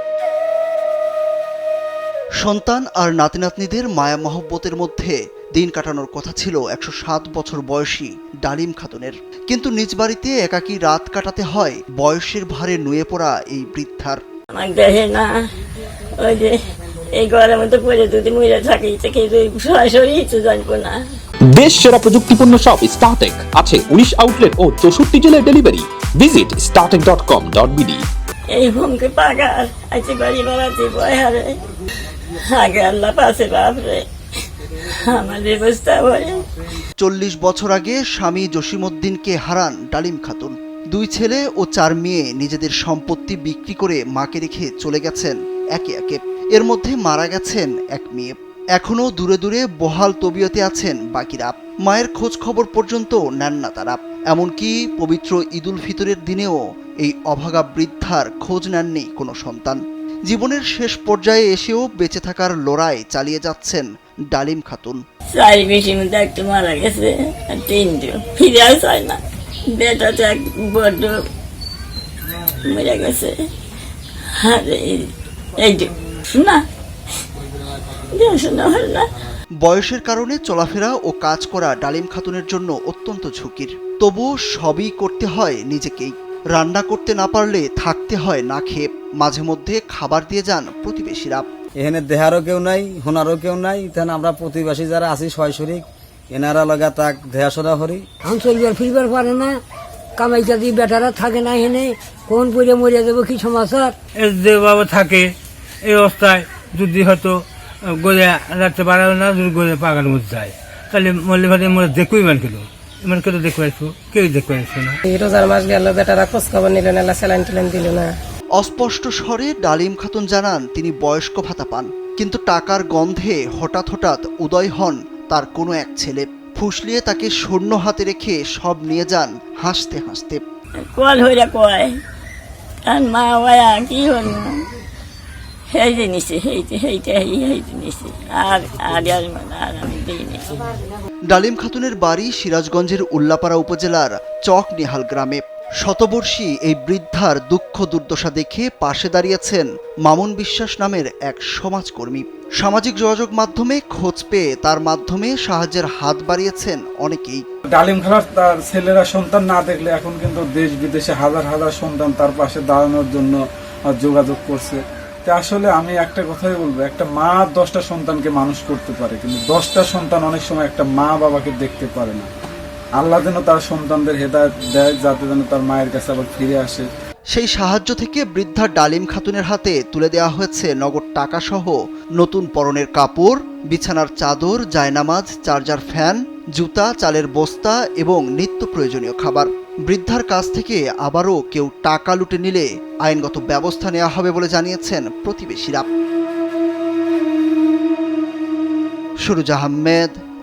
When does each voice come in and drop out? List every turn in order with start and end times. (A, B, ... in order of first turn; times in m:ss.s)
0:02.4-0:14.2 A
0:14.5-0:21.0 B
0:21.6-0:28.0 C
0:28.5-0:31.6 B
0:32.2-0:34.0 B
0:34.7-0:36.4 B
0:37.0-1:05.0 A
1:05.3-1:09.2 B
1:09.8-1:11.2 B
1:12.6-1:13.3 B
1:14.4-1:15.1 B
1:15.6-1:16.6 B
1:18.1-1:19.1 B
1:19.6-1:31.5 A
1:31.8-1:38.1 D
1:38.2-1:39.6 E
1:40.2-1:44.0 E
1:44.2-1:45.3 F
1:45.8-1:47.4 F
1:48.0-1:55.0 F
1:55.1-1:58.1 G
1:58.6-2:10.4 A
2:10.9-2:11.9 B
2:12.9-2:14.5 B
2:15.7-2:20.7 B
2:21.3-2:37.4 A
2:37.8-2:52.3 H
2:53.0-2:56.9 H
2:57.3-3:15.9 A
3:19.2-3:20.1 A